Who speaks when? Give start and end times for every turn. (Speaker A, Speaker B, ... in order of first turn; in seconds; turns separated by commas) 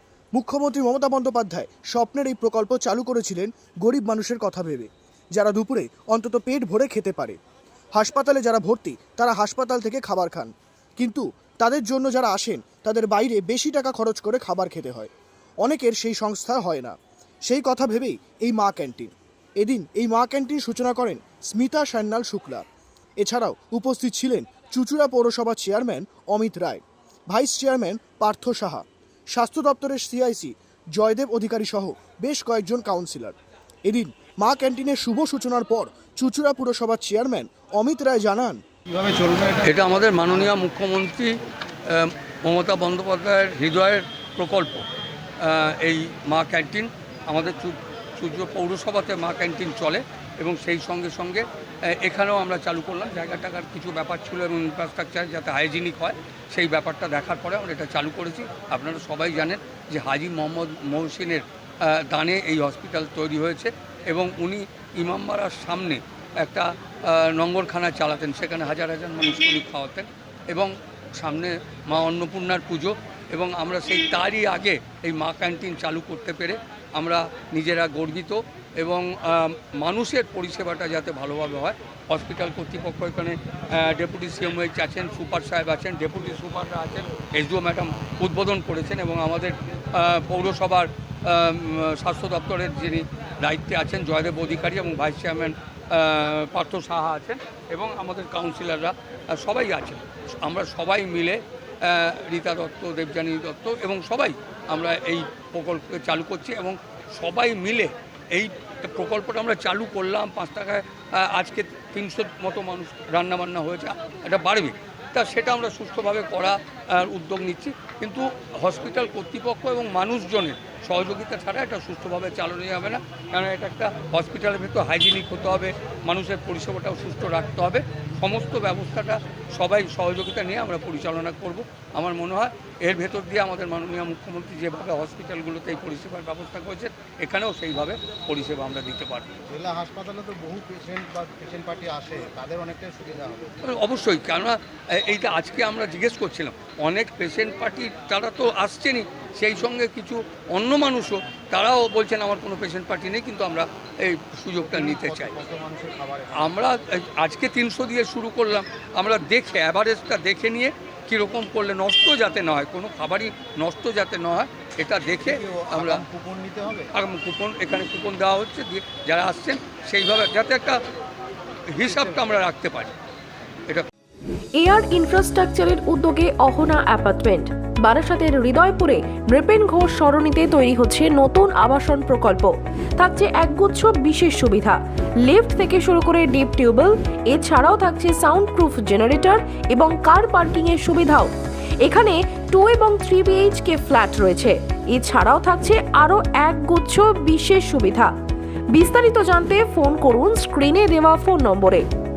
Speaker A: 0.3-7.4, Speaker A: 7.9-15.1, Speaker A: 15.6-16.9, Speaker A: 17.5-22.7, Speaker A: 23.2-38.6, Speaker B: 38.9-39.7, Speaker C: 39.6-41.3, Speaker C: 41.9-44.9, Speaker C: 45.4-139.3, Speaker B: 139.5-143.6, Speaker C: 143.7-155.4, Speaker B: 154.7-156.5, Speaker C: 156.3-166.1, Speaker B: 165.2-166.9, Speaker C: 166.9-170.8, Speaker C: 171.7-172.9, Speaker B: 171.8-172.2, Speaker D: 174.6-198.1, Speaker D: 198.7-201.8